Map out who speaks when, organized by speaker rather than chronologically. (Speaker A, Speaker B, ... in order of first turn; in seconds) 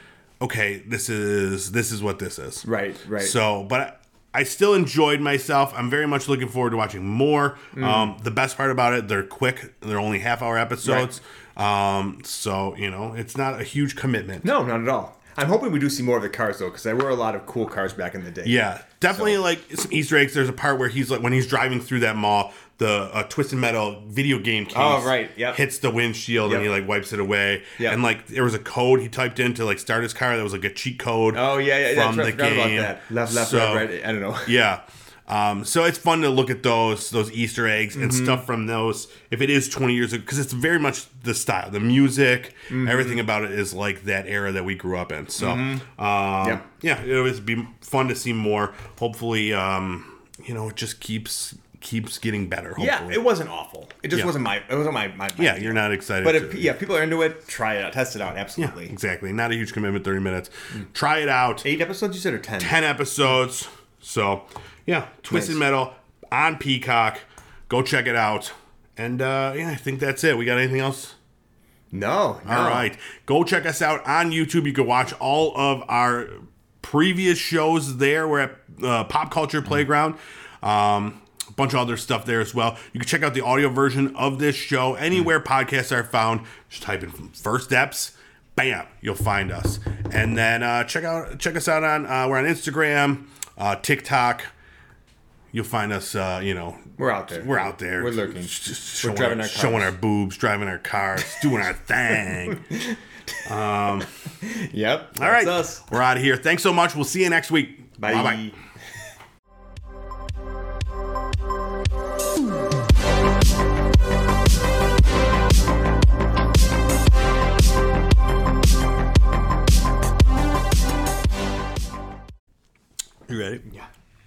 Speaker A: 0.4-2.7, 3.2-14.5, 18.4-33.9, 34.5-53.2, 55.4-56.7, 58.6-61.7, 62.6-71.2, 72.5-94.5, 95.5-102.6, 103.5-104.1, 105.2-108.5
Speaker B: 2.6-3.4, 7.7-8.1, 10.8-11.1, 14.4-19.4, 24.7-25.6, 26.4-26.7, 31.3-34.5, 37.9-38.4, 42.7-43.2, 45.4-45.8, 52.8-58.9, 61.6-62.8, 65.3-65.6, 71.9-72.9, 97.0-99.9, 102.3-103.0, 104.4-105.9, 108.0-108.6, 123.3-123.9